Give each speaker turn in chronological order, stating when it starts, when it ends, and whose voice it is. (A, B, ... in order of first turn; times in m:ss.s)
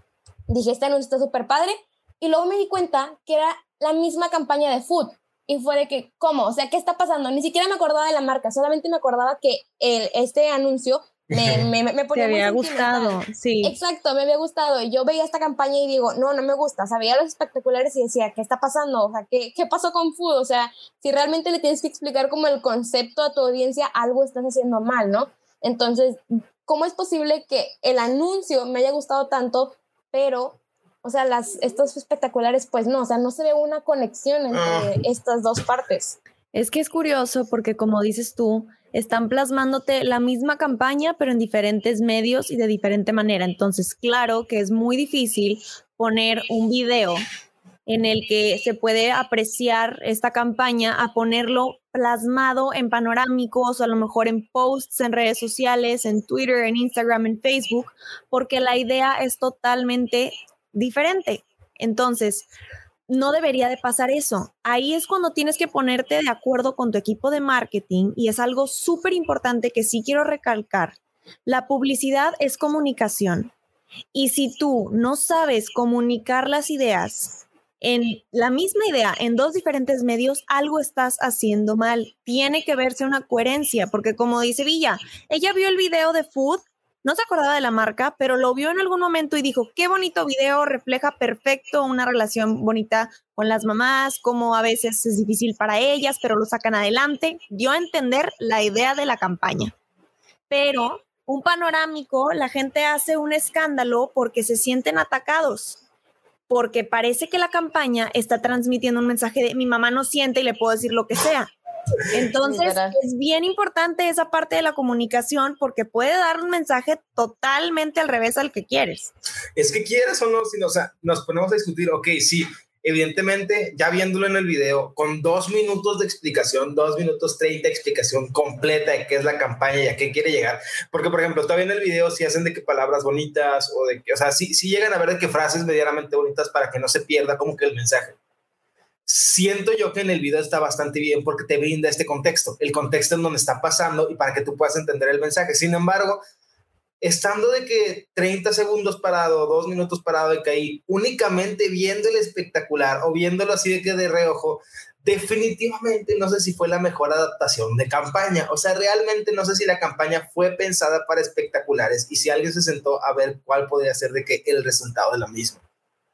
0:00.5-0:36.2 A
0:11.3-0:11.7 B
0:12.1-0:13.8 C
0:34.5-0:35.0 B
0:36.5-0:47.2 C
0:47.9-1:02.5 C
1:03.1-1:11.0 C
1:11.5-1:13.5 C
1:14.1-1:39.7 C
1:40.5-1:45.8 C
1:46.5-1:51.5 C
1:52.1-1:59.1 C
1:52.4-1:52.9 A
1:59.6-2:18.2 B
2:19.1-2:26.2 B
2:27.0-2:45.6 B